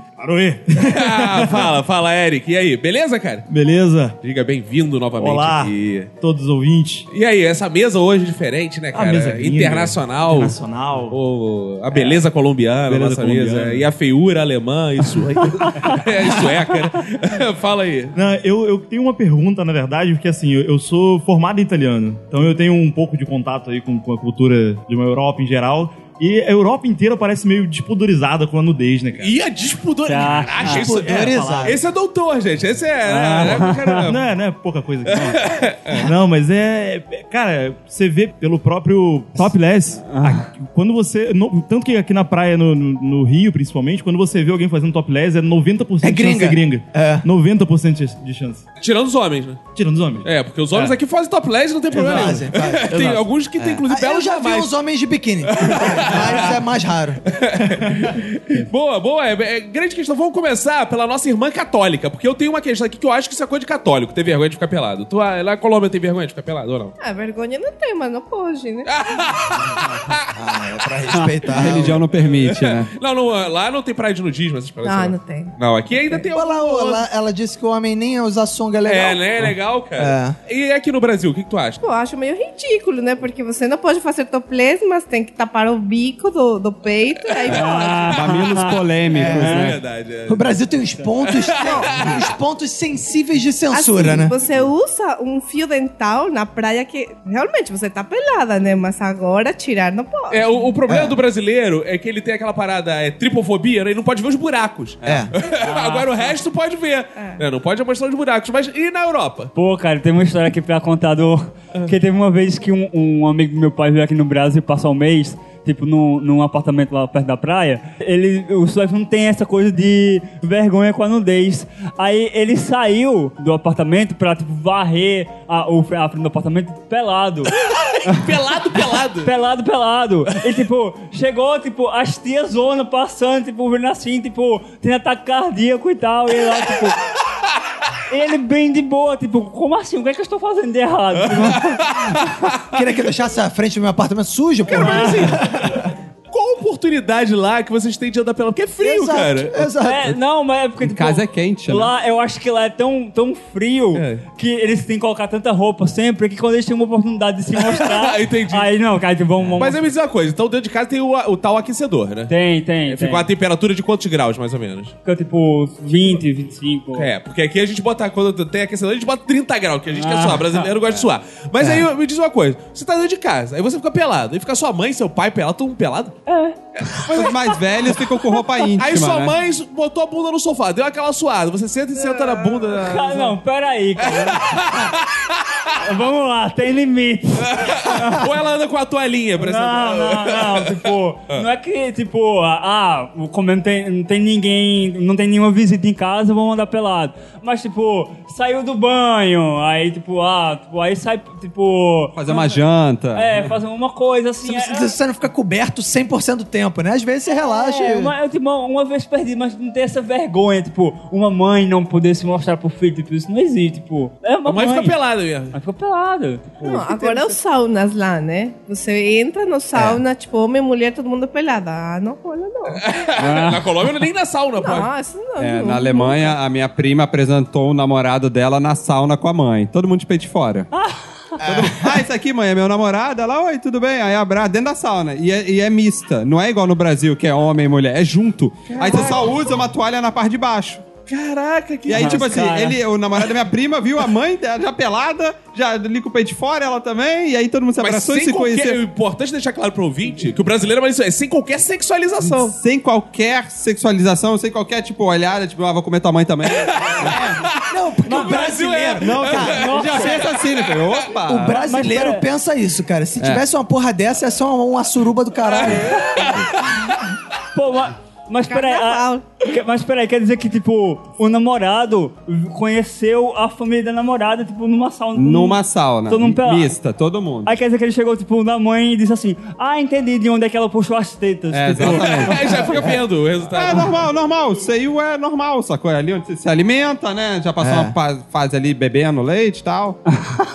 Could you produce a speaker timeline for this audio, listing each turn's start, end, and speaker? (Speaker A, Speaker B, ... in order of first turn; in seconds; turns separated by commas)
Speaker A: 0.2-1.7, Speaker B: 0.8-3.5, Speaker A: 3.5-4.2, Speaker B: 4.2-6.1, Speaker A: 5.2-7.1, Speaker B: 7.1-18.1, Speaker A: 8.9-11.2, Speaker A: 11.9-12.2, Speaker A: 12.9-13.9, Speaker A: 18.1-29.4, Speaker B: 29.2-34.2, Speaker C: 30.1-30.8, Speaker D: 30.6-31.8, Speaker A: 31.0-31.7, Speaker C: 33.0-34.1, Speaker A: 34.1-48.6, Speaker B: 35.1-36.0, Speaker C: 40.0-40.5, Speaker D: 46.0-47.2, Speaker B: 48.8-49.6, Speaker A: 49.7-51.0, Speaker B: 50.2-54.7, Speaker D: 51.9-52.9, Speaker A: 52.0-53.3, Speaker D: 53.6-57.2, Speaker B: 55.5-56.6, Speaker B: 57.2-66.9, Speaker E: 67.0-68.9, Speaker B: 68.8-70.3, Speaker D: 70.3-72.0, Speaker F: 71.5-72.9, Speaker B: 71.6-77.0, Speaker E: 74.8-75.5, Speaker D: 76.3-80.3, Speaker B: 78.8-81.8, Speaker E: 81.8-88.4, Speaker B: 87.3-87.7, Speaker C: 87.5-89.7, Speaker F: 88.1-89.8, Speaker D: 89.1-89.5, Speaker B: 89.3-90.5, Speaker D: 90.3-94.3, Speaker B: 91.2-92.2, Speaker E: 91.6-92.2, Speaker E: 93.7-100.5, Speaker B: 100.3-109.5, Speaker D: 100.9-101.2, Speaker F: 105.0-105.3, Speaker D: 105.0-105.3, Speaker C: 105.5-106.3, Speaker C: 109.5-128.3, Speaker B: 127.7-129.3, Speaker C: 129.2-137.0, Speaker C: 138.1-142.5, Speaker B: 141.4-142.2, Speaker D: 142.7-145.9, Speaker B: 144.7-149.7, Speaker C: 144.7-145.3, Speaker D: 148.8-150.2, Speaker C: 149.8-159.8, Speaker F: 150.8-151.9, Speaker B: 153.9-154.2, Speaker B: 157.6-158.7, Speaker B: 159.6-162.3, Speaker C: 162.3-163.3, Speaker B: 162.8-164.9, Speaker C: 165.1-167.1, Speaker B: 166.9-176.2, Speaker C: 169.9-170.7, Speaker C: 176.3-177.4, Speaker B: 176.8-177.3, Speaker F: 177.1-179.3, Speaker B: 178.8-183.4, Speaker E: 181.9-183.0, Speaker C: 182.7-184.7, Speaker B: 184.0-185.7, Speaker C: 185.8-188.2, Speaker B: 187.5-190.7, Speaker C: 189.4-202.6, Speaker F: 202.1-203.5, Speaker C: 203.1-204.9, Speaker D: 204.4-208.1, Speaker C: 207.3-215.0, Speaker B: 214.4-215.5, Speaker C: 215.5-217.3, Speaker E: 216.6-222.8, Speaker B: 222.7-224.9, Speaker C: 223.2-223.7, Speaker E: 224.6-226.3, Speaker F: 225.4-230.7, Speaker C: 230.7-231.4, Speaker D: 231.4-232.0, Speaker F: 231.4-240.8, Speaker B: 238.7-239.2, Speaker B: 241.1-242.5, Speaker F: 241.9-248.8, Speaker C: 241.9-242.8, Speaker B: 247.8-252.6, Speaker F: 252.3-257.4, Speaker B: 256.6-260.9, Speaker D: 257.1-259.7, Speaker F: 259.0-261.6, Speaker C: 259.4-260.2, Speaker D: 261.2-266.1, Speaker C: 261.5-262.2, Speaker B: 265.5-266.8, Speaker C: 265.6-266.4, Speaker C: 267.5-276.8, Speaker E: 268.5-269.2, Speaker F: 275.1-277.6, Speaker C: 277.4-282.4, Speaker F: 281.5-282.7, Speaker B: 281.8-284.0, Speaker F: 283.5-290.0, Speaker D: 287.6-287.9